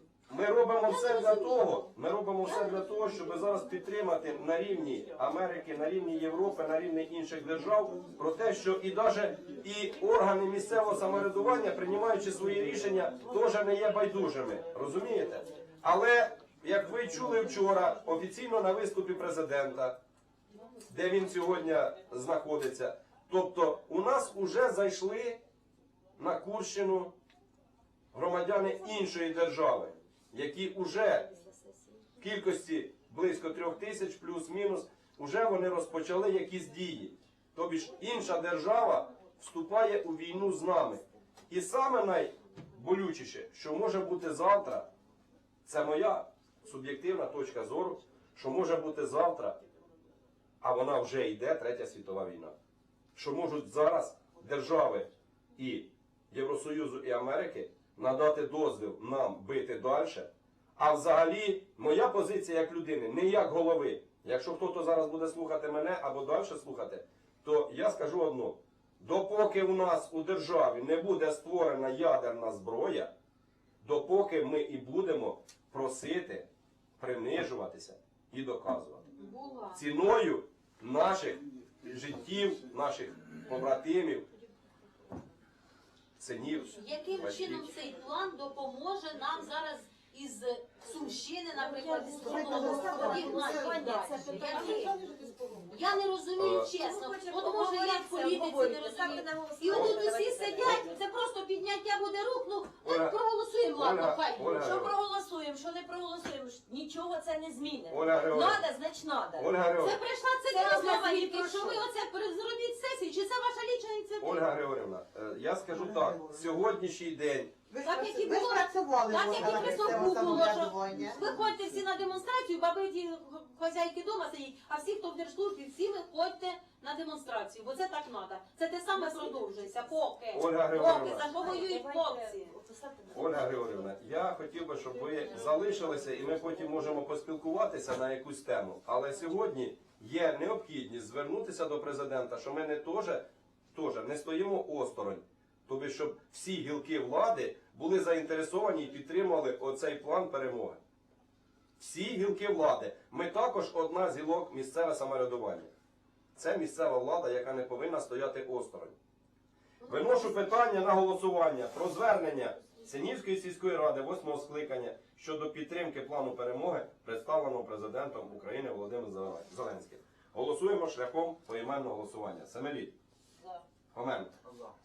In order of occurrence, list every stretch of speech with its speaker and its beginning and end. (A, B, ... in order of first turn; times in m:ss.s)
0:00.3-0:20.0 A
0:00.8-0:03.0 B
0:20.8-0:25.4 A
0:26.2-0:27.1 A
0:28.1-0:31.3 A
0:31.2-0:32.0 C
0:32.2-0:44.9 A
0:45.6-0:49.6 A
0:50.6-0:52.5 A
0:53.1-1:13.1 A
1:13.8-1:19.1 A
1:19.2-1:19.8 B
1:19.7-1:24.2 A
1:26.2-1:27.8 A
1:26.7-1:35.0 B
1:31.5-1:35.1 C
1:32.2-1:35.8 D
1:35.7-1:44.5 B
1:36.4-1:36.7 A
1:36.7-1:40.9 C
1:39.7-1:40.0 A
1:42.8-1:44.9 A
1:44.4-1:49.5 C
1:47.9-1:48.6 A
1:49.4-1:50.0 A
1:49.8-1:54.5 B
1:50.5-1:51.8 C
1:54.2-1:57.5 A
1:55.7-1:56.6 D
1:57.7-2:01.2 D
1:57.8-2:12.5 B
2:09.0-2:09.4 C
2:10.3-2:11.3 A
2:10.8-2:13.9 C
2:13.1-2:30.8 A
2:15.0-2:16.2 C
2:31.8-2:35.7 A
2:36.3-2:39.0 A
2:39.8-2:40.5 B
2:39.8-2:52.9 A
2:53.9-2:54.3 A